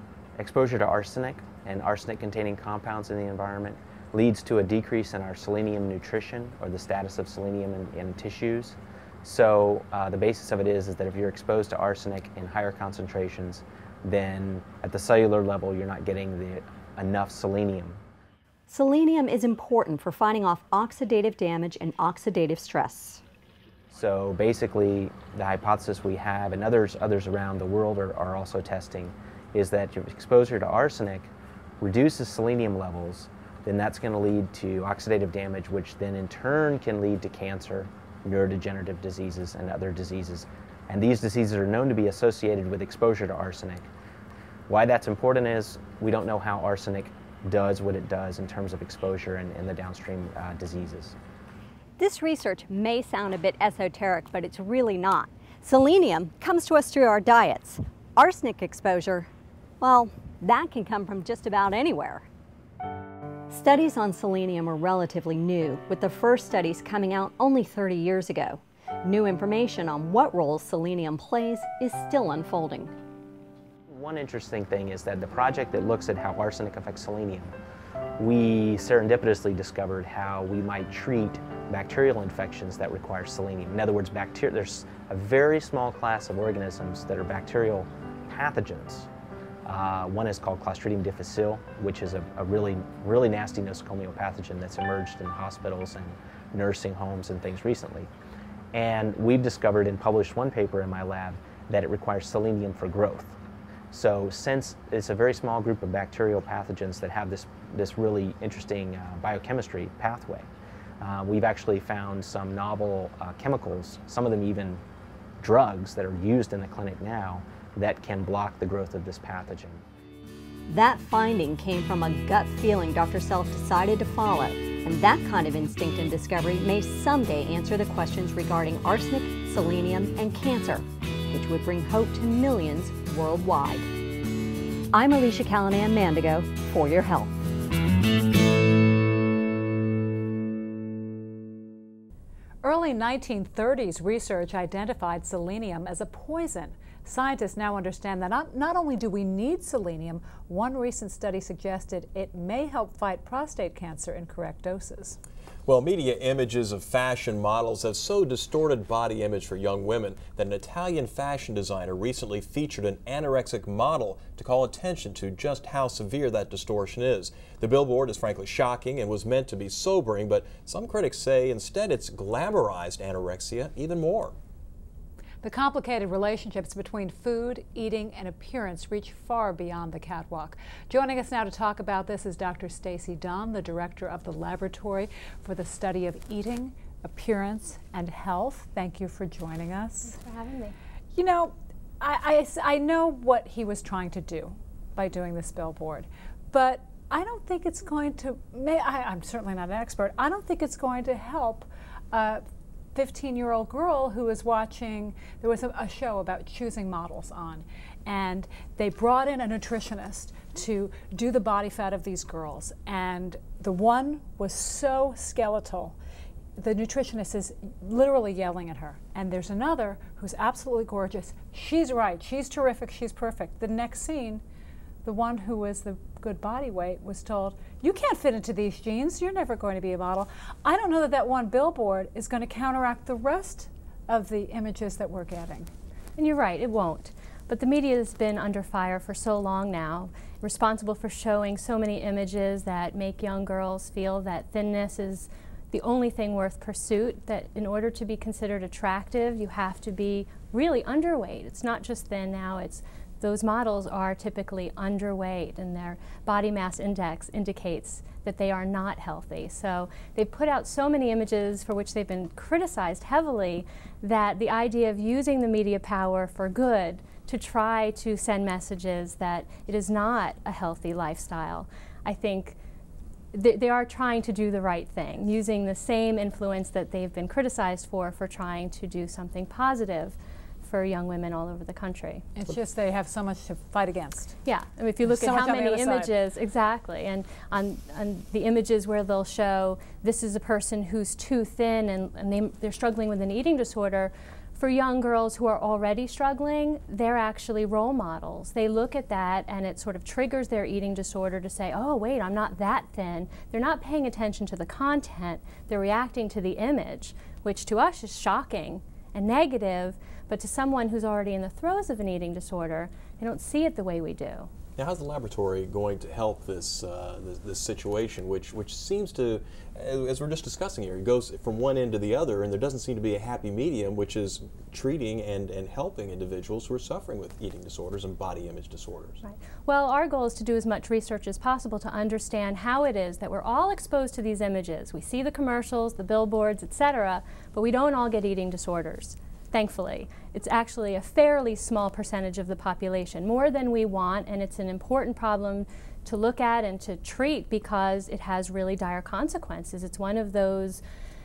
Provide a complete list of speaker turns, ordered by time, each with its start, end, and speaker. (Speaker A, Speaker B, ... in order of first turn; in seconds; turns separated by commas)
Speaker A: 0.4-18.0, Speaker B: 18.7-23.2, Speaker A: 23.9-43.9, Speaker A: 44.7-51.1, Speaker B: 52.0-59.3, Speaker B: 59.8-62.2, Speaker B: 63.5-72.9, Speaker A: 73.9-77.5, Speaker A: 78.2-89.1, Speaker A: 89.7-98.1, Speaker A: 98.7-103.4, Speaker A: 103.9-110.5, Speaker A: 111.0-114.8, Speaker A: 115.4-119.8, Speaker B: 120.7-133.9, Speaker B: 134.9-137.4, Speaker C: 142.6-155.2, Speaker D: 155.7-174.3, Speaker C: 175.4-190.2, Speaker E: 190.1-190.7, Speaker C: 191.1-216.0, Speaker C: 216.6-224.4, Speaker C: 225.0-235.7, Speaker E: 236.2-272.6, Speaker E: 273.3-282.3, Speaker C: 282.3-284.4, Speaker E: 284.4-314.5, Speaker C: 285.0-286.1, Speaker D: 314.8-329.2, Speaker E: 329.2-350.8